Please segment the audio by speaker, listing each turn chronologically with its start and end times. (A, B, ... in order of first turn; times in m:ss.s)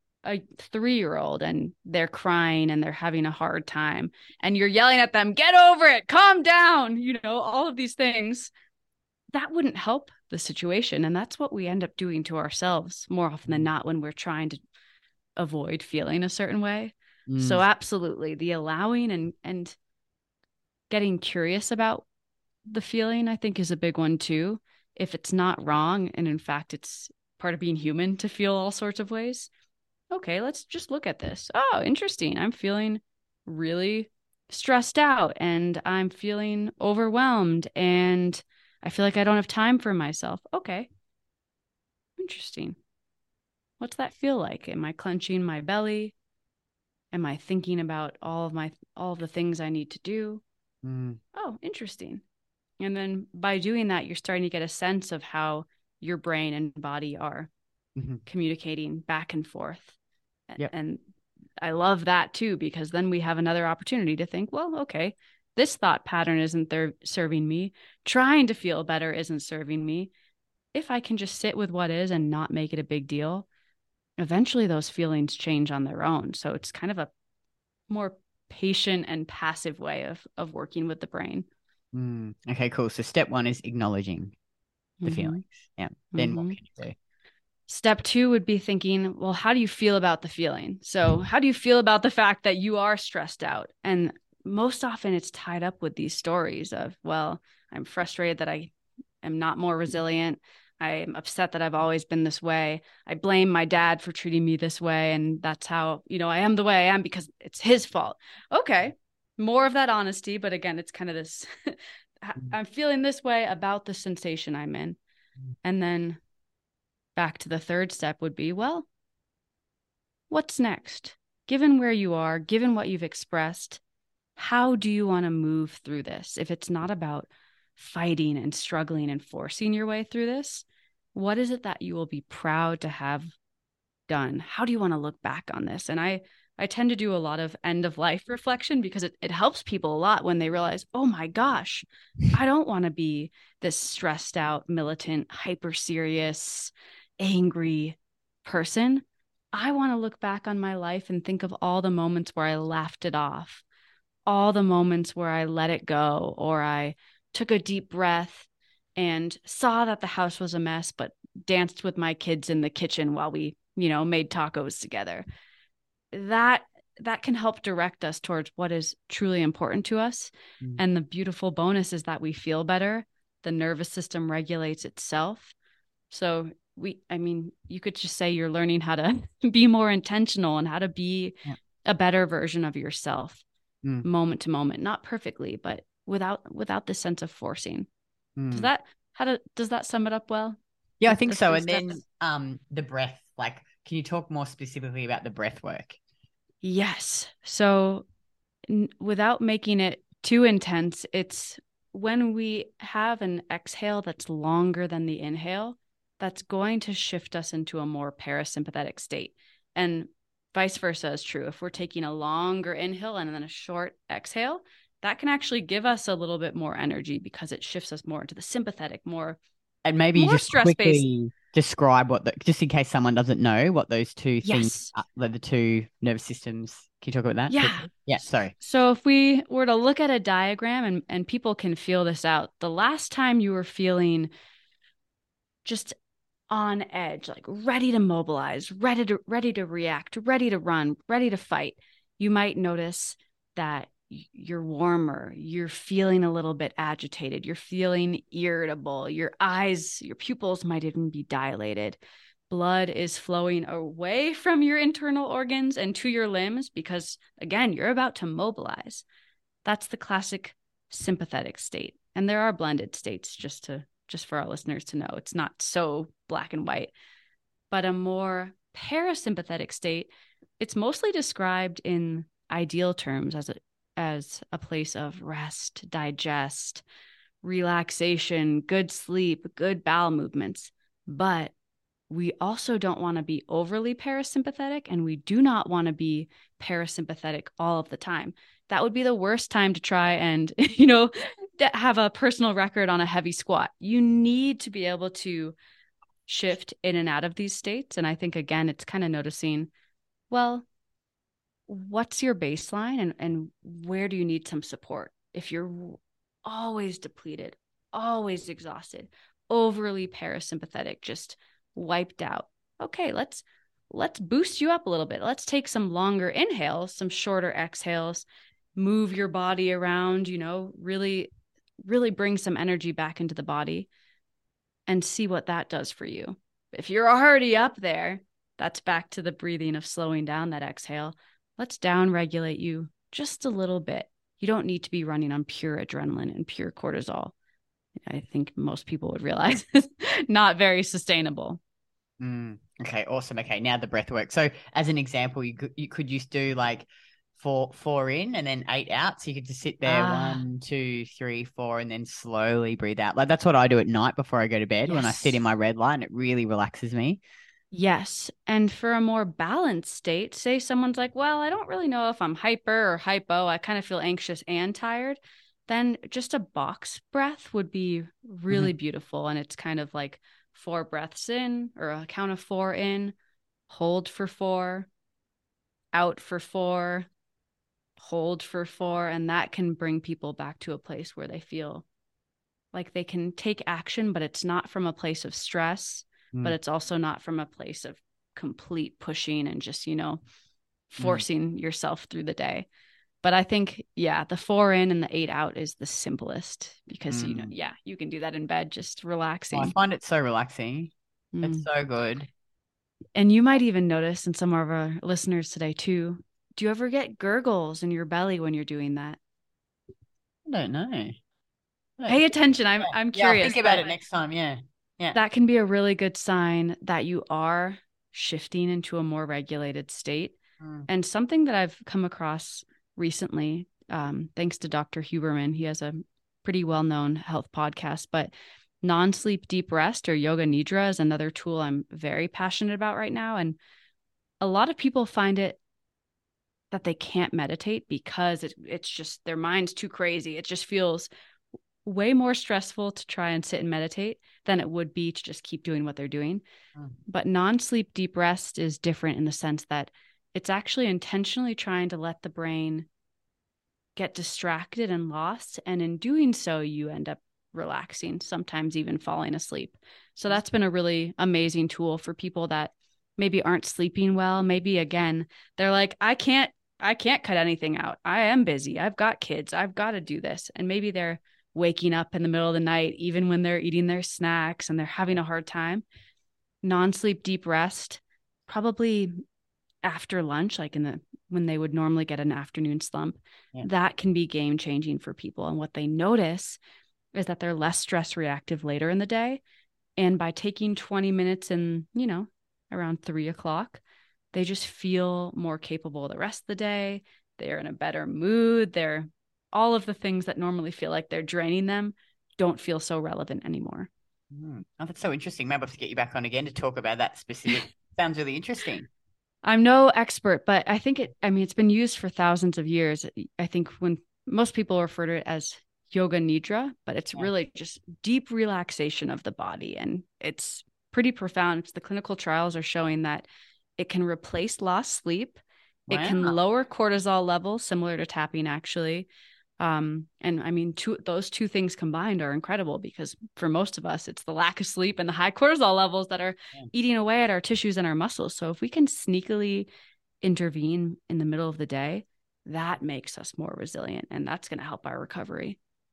0:00.2-0:08.5 A
0:09.3-0:14.6 A
0:15.4-0:19.8 A
0:17.3-0:17.6 B
0:20.9-0:22.1 A
0:22.7-0:29.5 A
0:30.1-0:40.9 A
0:42.2-0:42.8 A
0:43.8-0:46.1 A
0:47.1-0:50.4 A
0:50.8-0:51.2 B
0:51.4-0:52.2 A
0:52.8-0:57.5 A
0:58.0-0:58.2 B
0:58.3-1:00.0 A
1:00.5-1:01.0 A
1:01.6-1:10.1 A
1:10.7-1:13.5 A
1:14.2-1:17.1 A
1:17.9-1:21.5 A
1:21.9-1:24.4 B
1:25.0-1:25.4 A
1:25.0-1:27.0 B
1:26.1-1:26.6 A
1:27.7-1:55.0 A
1:55.6-1:56.2 A
1:57.2-1:58.9 A
2:00.3-2:03.8 A
2:04.4-2:13.3 A
2:14.1-2:33.6 A
2:34.3-2:45.3 A
2:46.1-2:55.5 A
2:56.1-3:03.4 A
3:04.0-3:07.9 A
3:08.4-3:08.7 B
3:08.5-3:12.0 A
3:11.0-3:16.0 B
3:16.6-3:18.1 A
3:18.7-3:39.4 A
3:39.8-3:48.5 B
3:40.2-3:41.0 A
3:44.4-3:44.9 A
3:47.5-3:47.9 A
3:48.6-3:54.3 A
3:55.6-3:56.0 A
3:56.5-4:19.0 A
4:19.6-4:26.9 A
4:27.7-4:30.1 A
4:30.6-4:36.8 A
4:37.4-4:41.5 A
4:42.1-4:55.6 A
4:56.3-4:59.7 A
5:00.3-5:00.6 A
5:01.7-5:21.3 A
5:21.9-5:23.9 A
5:24.9-5:37.3 A
5:38.1-5:41.6 A
5:42.2-5:57.2 B
5:49.8-5:50.4 A
5:54.9-5:55.4 A
5:57.7-6:13.2 A
6:13.7-6:14.9 A
6:15.9-6:17.1 A
6:18.0-6:21.8 A
6:22.7-6:30.2 A
6:30.9-6:32.7 A
6:31.0-6:31.3 B
6:33.2-6:39.7 A
6:37.1-6:37.5 B
6:39.5-6:42.3 B
6:41.3-6:41.7 A
6:43.2-6:49.2 A
6:50.5-6:51.2 B
6:52.1-6:53.9 A
6:53.1-6:55.2 B
6:55.1-7:13.6 A
7:00.6-7:00.9 B
7:14.4-7:15.6 A
7:16.7-7:21.1 A
7:21.8-7:26.4 A
7:27.1-7:32.9 A
7:34.0-7:55.8 A
7:56.6-7:59.1 A
7:59.8-8:06.6 A
8:07.1-8:09.4 A
8:10.0-8:13.8 A
8:14.3-8:23.9 A
8:24.3-8:28.9 B
8:29.4-8:43.3 A
8:43.8-8:45.4 A
8:45.9-8:46.4 B
8:45.9-8:49.1 A
8:49.6-8:59.7 A
9:00.2-9:05.6 A